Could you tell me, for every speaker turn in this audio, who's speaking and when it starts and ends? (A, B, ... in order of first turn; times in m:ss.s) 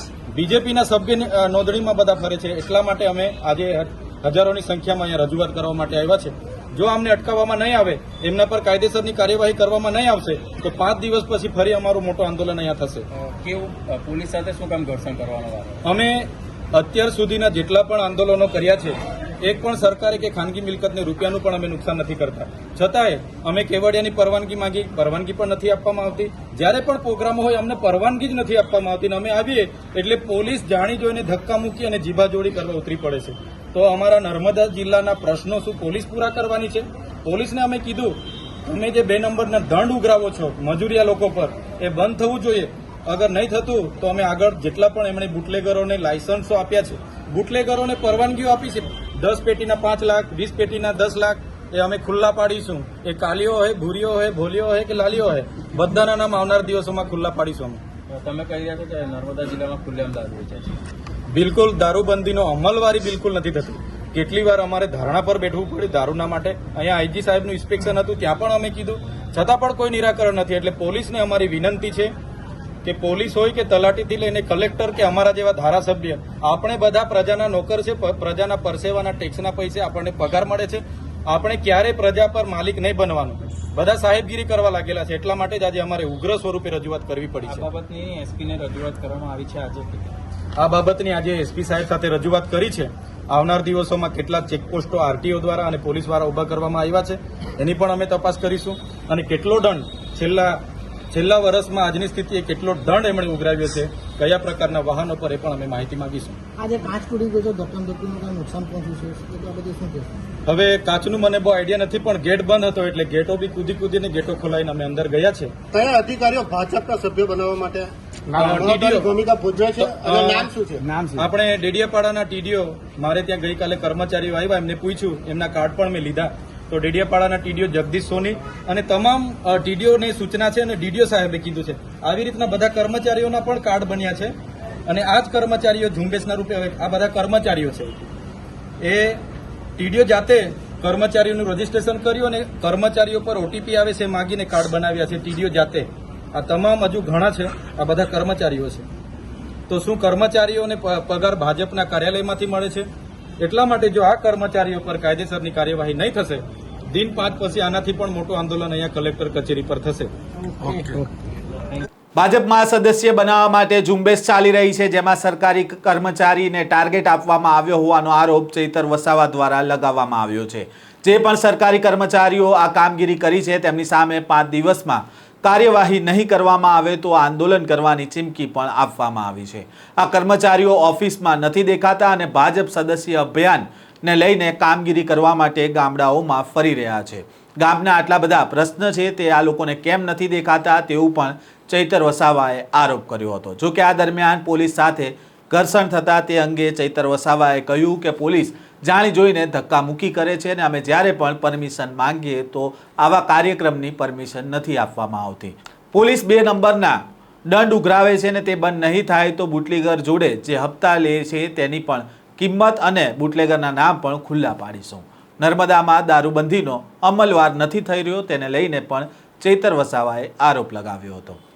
0:00.3-0:13.0 A
0:13.1-0:15.8 B
0:15.8-0:57.8 A
0:58.1-1:00.8 B
1:01.3-1:12.1 A
1:12.8-1:27.7 A
1:27.5-1:30.2 B
1:30.6-1:40.6 A
1:41.1-1:46.4 A
1:46.6-1:50.1 C
1:50.5-1:55.5 A
1:55.7-1:57.9 D
1:58.3-1:59.1 A
1:58.6-2:00.8 D
1:59.8-2:00.5 A
2:00.9-2:01.2 B
2:01.1-2:14.3 A
2:14.9-2:18.1 A
2:18.8-2:19.2 A
2:19.8-2:28.9 A
2:29.7-2:32.9 A
2:33.4-2:40.1 A
2:40.6-2:41.0 C
2:42.1-3:41.4 E